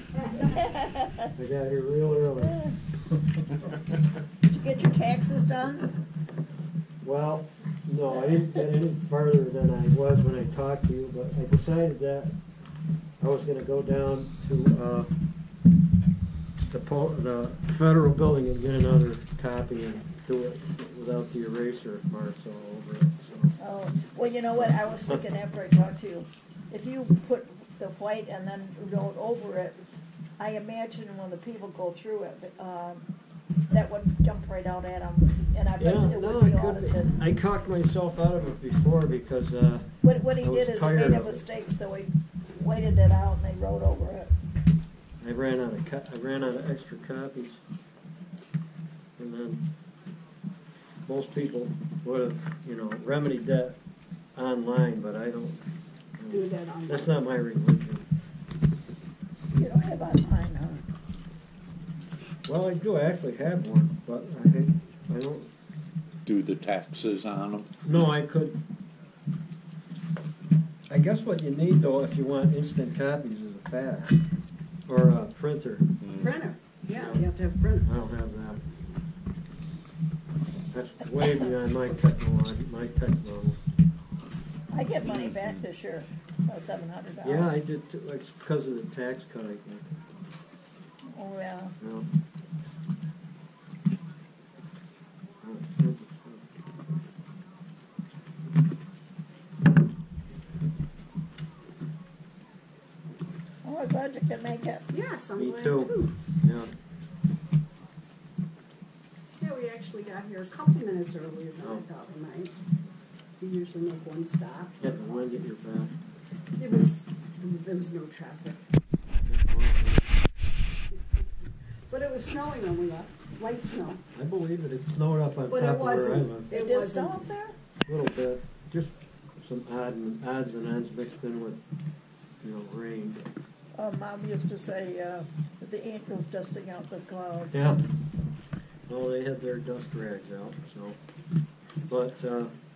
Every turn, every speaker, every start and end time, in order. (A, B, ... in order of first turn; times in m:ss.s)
0:00.1-0:00.8 A
0:00.5-0:01.3 B
0:01.4-0:02.6 C
0:02.4-0:02.7 B
0:04.4-0:05.9 B
0:07.0-0:12.4 C
0:13.2-0:15.1 C
0:16.7-0:23.5 C
0:23.6-0:29.8 B
0:24.6-0:25.2 C
0:30.4-0:33.0 B
0:33.7-0:37.2 B
0:35.8-0:41.4 C
0:40.0-0:44.3 B
0:45.2-0:47.6 C
0:49.2-0:49.6 C
0:51.1-0:53.8 C
0:54.3-0:55.6 C
0:56.2-0:58.1 C
0:56.3-0:57.1 A
0:59.5-1:00.8 B
1:02.4-1:05.5 C
1:06.2-1:08.0 D
1:07.8-1:08.6 C
1:10.9-1:14.2 C
1:14.9-1:15.9 C
1:16.0-1:16.4 D
1:16.1-1:17.9 A
1:16.9-1:17.2 C
1:17.8-1:18.6 C
1:20.7-1:23.6 C
1:24.7-1:27.5 B
1:25.0-1:25.6 D
1:27.2-1:30.0 C
1:31.1-1:31.7 B
1:31.8-1:32.1 C
1:35.4-1:36.5 C
1:43.6-1:44.8 B
1:44.9-1:46.1 A
1:45.3-1:46.7 C
1:49.4-1:52.5 A
1:53.4-1:55.2 A
1:54.8-1:55.9 C
1:56.6-1:58.6 A
1:59.2-2:00.0 C
2:00.9-2:01.2 A
2:01.9-2:04.0 A
2:04.1-2:06.5 C
2:05.5-2:07.2 A
2:06.5-2:07.6 B
2:07.9-2:11.6 C
2:12.4-2:13.2 C
2:13.7-2:17.7 B
2:17.5-2:17.8 C
2:18.9-2:21.0 C
2:21.9-2:22.5 C